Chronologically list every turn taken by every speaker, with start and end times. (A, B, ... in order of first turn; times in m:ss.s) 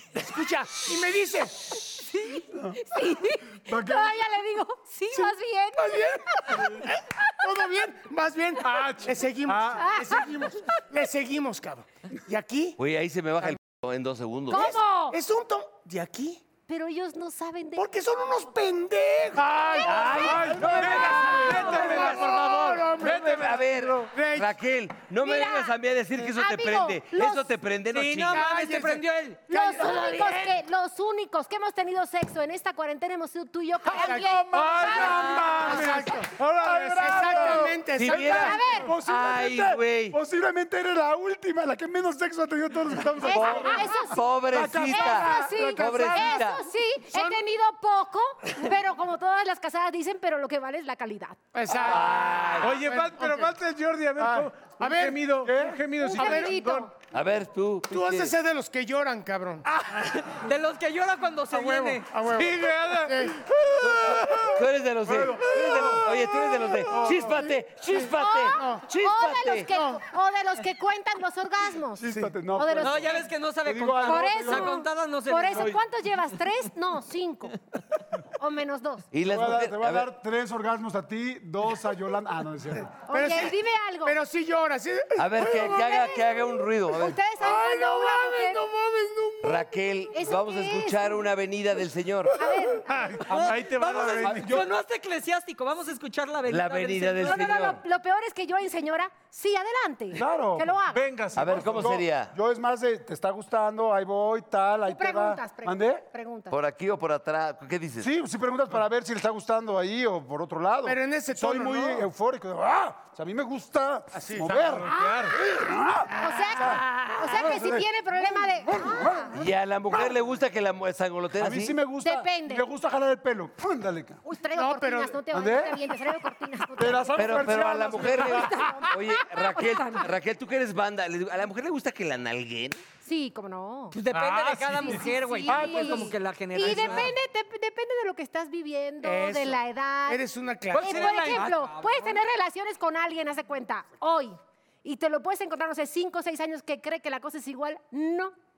0:00.1-0:01.8 A
0:02.0-0:07.4 B
0:02.5-0:02.8 C
0:03.7-0:04.2 C
0:05.1-0:12.8 A
0:08.6-0:09.9 D
0:09.8-0:10.8 B
0:12.8-0:14.7 E
0:14.5-0:15.2 B
0:14.5-0:16.4 A
0:16.7-0:17.9 B
0:17.8-0:23.6 A
0:19.4-0:22.2 B
0:19.8-0:24.1 D
0:19.9-0:21.6 E
0:23.0-0:28.4 E
0:24.1-0:24.5 A
0:25.2-0:27.5 B
0:27.9-0:29.6 F
0:28.3-0:30.5 A
0:29.5-0:35.8 B
0:33.9-0:46.4 C
0:34.0-0:34.4 A
0:34.5-0:37.6 D
0:35.4-0:38.6 A
0:37.9-0:40.2 E
0:38.2-0:38.9 B
0:43.2-0:44.2 B
0:43.3-0:46.7 E
0:44.8-0:51.4 B
0:51.5-0:53.5 A
0:51.7-0:52.9 E
0:52.6-0:56.9 D
0:54.2-0:54.5 C
0:54.8-0:55.3 A
0:55.4-0:55.8 C
0:56.0-0:56.9 B
0:56.2-0:56.6 A
0:57.1-0:58.3 E
0:57.9-0:59.9 A
1:00.0-1:02.1 F
1:01.5-1:03.4 A
1:02.3-1:04.6 D
1:03.8-1:09.7 E
1:05.1-1:07.2 C
1:05.5-1:06.0 D
1:07.9-1:13.2 B
1:08.6-1:08.9 A
1:09.7-1:10.0 A
1:12.0-1:14.8 C
1:12.8-1:15.8 F
1:14.0-1:17.6 B
1:18.4-1:19.1 B
1:19.1-1:20.1 E
1:19.2-1:23.0 C
1:23.1-1:24.2 B
1:23.1-1:25.8 A
1:25.2-1:27.2 E
1:25.5-1:26.2 B
1:26.9-1:28.6 B
1:27.4-1:29.6 A
1:29.4-1:32.4 E
1:30.1-1:31.1 B
1:32.4-1:32.9 B
1:32.4-1:34.6 D
1:32.9-1:33.2 A
1:33.2-1:37.4 F
1:34.2-1:34.6 C
1:36.5-1:37.8 E
1:37.2-1:41.0 B
1:40.1-1:40.7 C
1:40.9-1:41.9 D
1:41.4-1:42.3 E
1:41.5-1:46.0 C
1:44.9-1:46.6 B
1:46.5-1:48.1 E
1:48.0-2:00.1 C
1:50.8-1:52.1 A
1:54.1-1:54.8 A
1:54.4-1:55.4 D
1:54.9-1:55.4 B
1:56.2-1:59.2 B
1:59.3-2:01.8 E
2:01.4-2:04.2 C
2:02.0-2:02.7 B
2:04.2-2:07.2 B
2:04.6-2:05.2 A
2:05.3-2:05.8 C
2:06.8-2:08.9 C
2:07.1-2:12.8 E
2:08.1-2:10.1 B
2:13.0-2:14.0 B
2:13.9-2:17.1 F
2:14.1-2:15.1 D
2:14.8-2:28.3 B
2:15.5-2:16.1 C
2:16.7-2:17.0 D
2:19.0-2:21.4 A
2:20.7-2:22.1 F